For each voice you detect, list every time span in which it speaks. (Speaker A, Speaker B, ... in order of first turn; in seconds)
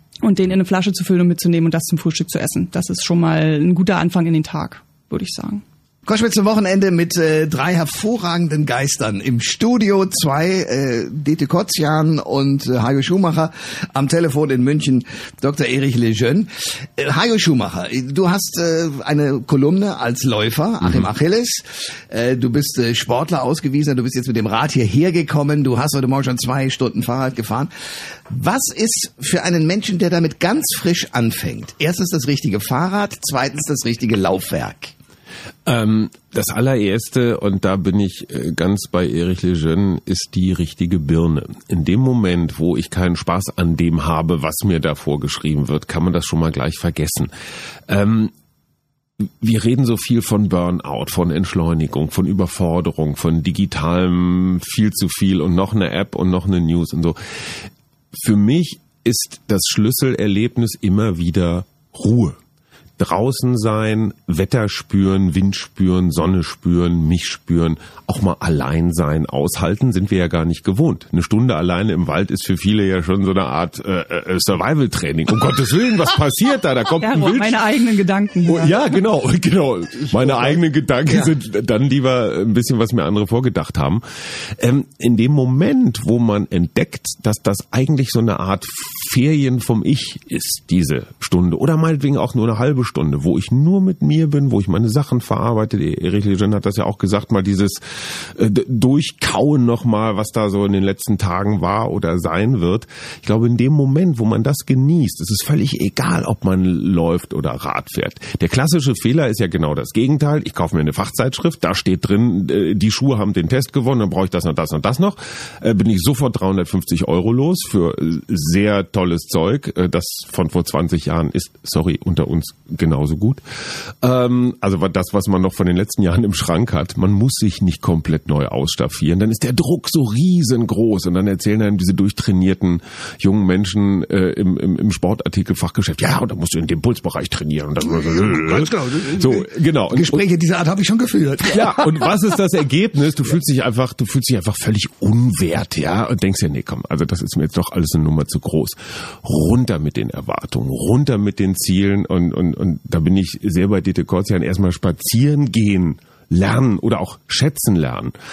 Speaker A: 0.2-5.6, 77.0-78.8
Speaker B: 6.0-27.7, 28.3-34.9, 80.2-80.5, 81.1-81.3, 137.8-142.1
Speaker C: 35.6-47.3, 47.9-48.3, 49.4-57.6, 58.1-62.4, 63.0-77.6, 78.5-84.0, 84.6-123.4, 124.0-140.2, 141.5-158.1